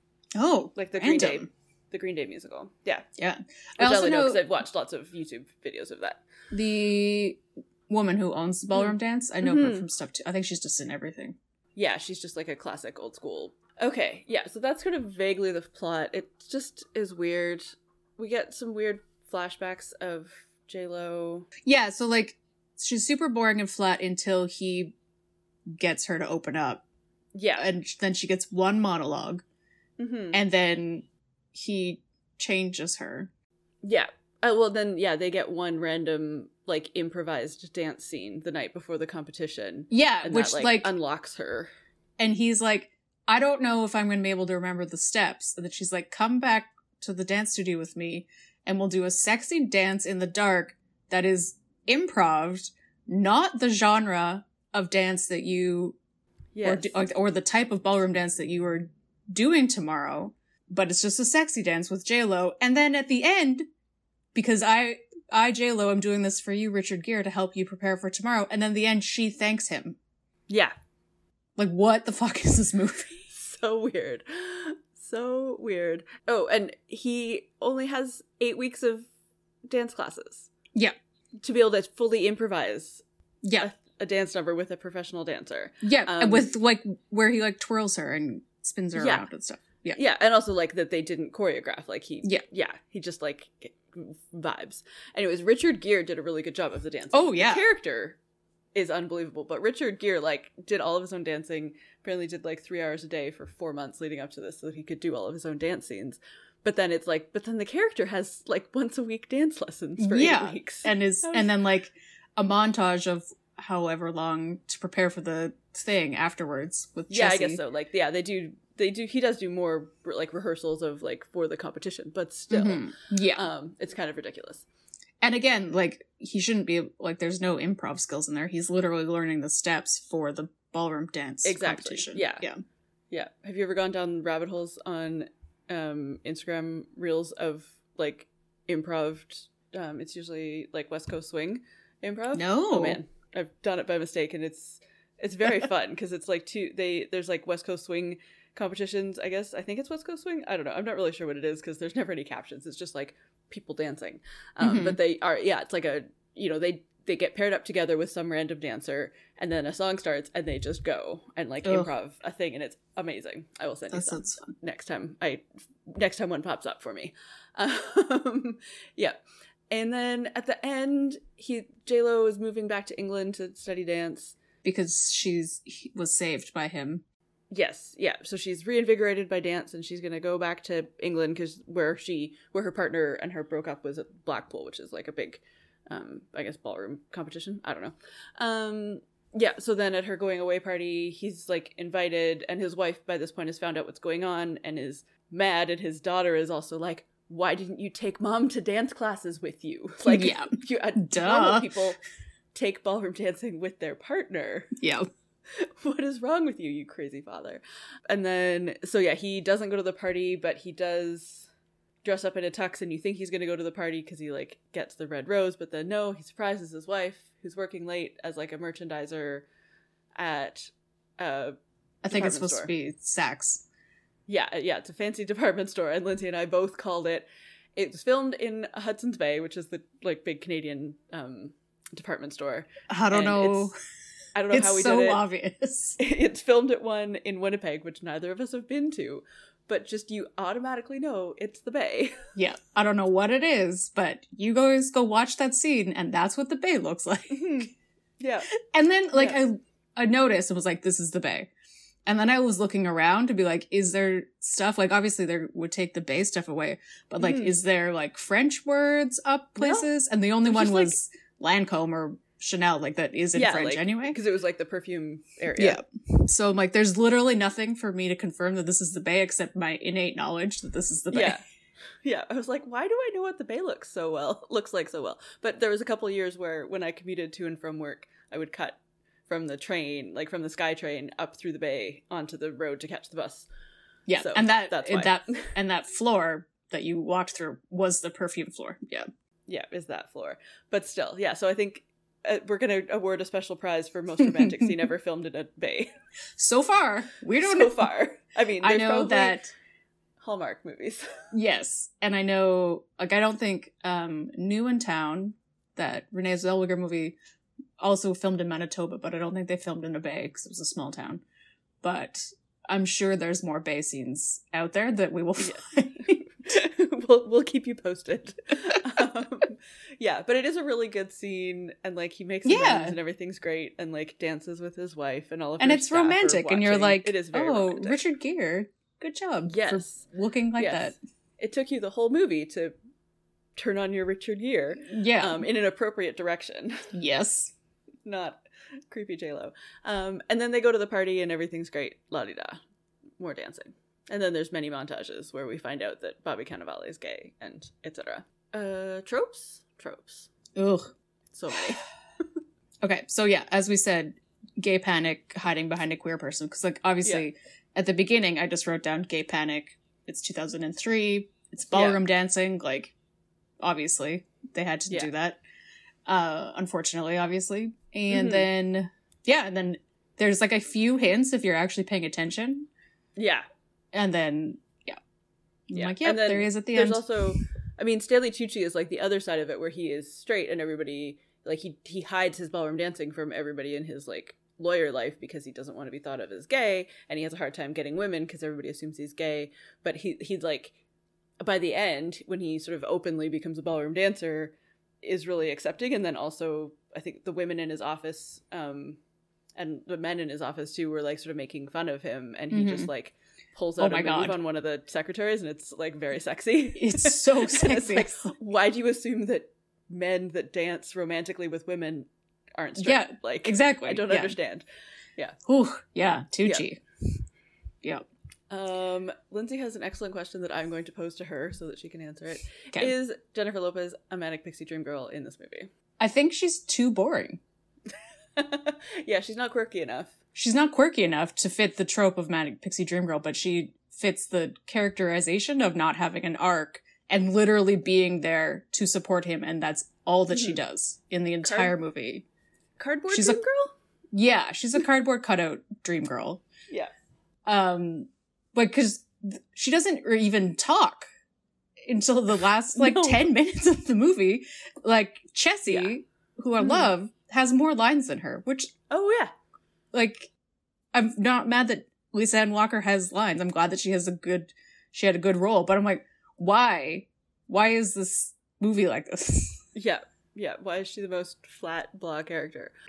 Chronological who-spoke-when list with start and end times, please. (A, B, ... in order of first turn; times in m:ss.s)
0:00.4-0:01.5 A
0:00.7-0:03.0 B
0:03.2-0:04.4 A
0:03.8-0:06.2 B
0:06.5-0:11.4 A
0:08.7-0:09.8 B
0:11.8-0:21.5 B
0:21.6-0:24.9 A
0:25.8-0:26.8 A
0:27.3-0:27.7 B
0:27.6-0:29.4 A
0:30.0-0:30.4 B
0:30.3-0:33.3 A
0:33.8-0:41.7 B
0:39.9-0:40.9 A
0:42.2-0:56.0 A
0:56.5-0:57.0 B
0:56.6-1:03.6 A
1:04.3-1:10.0 A
1:10.5-1:10.7 B
1:11.6-1:13.1 A
1:13.3-1:19.1 B
1:19.7-1:20.5 B
1:21.4-1:23.0 B
1:23.4-1:23.7 A
1:23.6-1:26.5 B
1:25.8-1:30.0 A
1:28.9-1:29.2 B
1:29.9-1:38.2 B
1:37.1-1:37.6 A
1:38.7-1:51.5 B
1:50.0-1:57.6 A
1:57.1-2:04.6 B
2:02.5-2:03.4 A
2:05.2-2:12.6 A
2:11.4-2:12.4 B
2:13.1-2:49.2 B
2:22.3-2:23.0 A
2:34.6-2:35.0 A
2:41.6-2:41.9 A
2:43.9-2:44.5 A
2:49.7-2:54.4 B
2:54.6-2:57.0 A
2:57.5-3:22.0 B
3:20.0-3:21.7 A
3:22.5-3:24.7 B
3:24.8-3:25.1 A
3:25.5-3:31.5 B
3:32.0-3:39.4 B
3:40.2-3:41.6 B
3:42.0-3:43.6 A
3:42.1-3:42.7 B
3:44.3-3:47.2 B
3:47.8-3:53.7 B
3:52.9-3:53.7 A
3:54.3-3:55.2 B
3:54.5-3:56.0 A
3:56.0-4:02.2 B
4:02.4-4:07.7 A
4:07.3-4:08.5 B
4:08.7-4:11.5 A
4:09.1-4:09.4 B
4:12.0-4:24.2 A
4:17.2-4:17.6 B
4:19.6-4:19.9 B
4:20.4-4:21.0 B
4:23.3-4:25.8 B
4:25.6-4:31.4 A
4:31.1-4:31.4 B
4:32.0-4:43.5 B
4:44.1-4:49.0 A
4:44.2-4:45.5 B
4:49.5-4:55.9 B
4:54.2-4:54.7 A
4:56.4-4:57.9 A
4:57.3-4:59.4 B
4:58.6-4:59.5 A
5:00.2-5:01.0 B
5:01.3-5:07.2 A
5:07.8-5:11.2 A
5:11.8-5:16.2 A
5:15.4-5:28.0 B
5:22.4-5:23.0 A
5:25.6-5:31.0 A
5:29.5-5:30.0 B
5:30.6-5:32.7 B
5:33.6-5:36.8 B
5:34.8-5:35.4 A
5:36.9-5:37.5 A
5:38.0-5:42.6 B
5:43.2-5:50.3 B
5:50.5-5:50.9 A
5:51.3-5:51.8 B
5:52.8-6:02.9 A
6:01.7-6:02.0 B
6:03.6-6:05.4 A
6:06.0-6:12.7 A
6:08.1-6:08.5 B
6:13.2-6:13.4 B
6:13.9-6:15.0 A
6:15.7-6:17.0 A
6:15.7-6:30.7 B
6:31.4-6:39.0 B
6:39.6-6:54.6 B
6:42.5-6:42.9 A
6:43.8-6:44.4 A
6:46.8-6:48.1 A
6:52.8-6:54.4 A
6:55.4-6:56.8 A
6:58.5-7:05.7 B
7:06.0-7:07.4 A
7:08.4-7:10.1 B
7:10.3-7:22.2 A
7:20.3-7:20.6 B
7:21.4-7:21.7 B
7:22.8-7:23.7 B
7:23.1-7:23.4 A
7:24.1-7:26.4 A
7:27.4-7:31.0 A
7:31.8-7:38.7 A
7:32.8-7:33.2 B
7:35.7-7:35.9 B
7:36.6-7:36.9 B
7:38.9-7:39.3 B
7:39.9-7:40.3 A
7:40.9-7:49.6 A
7:49.7-7:52.7 B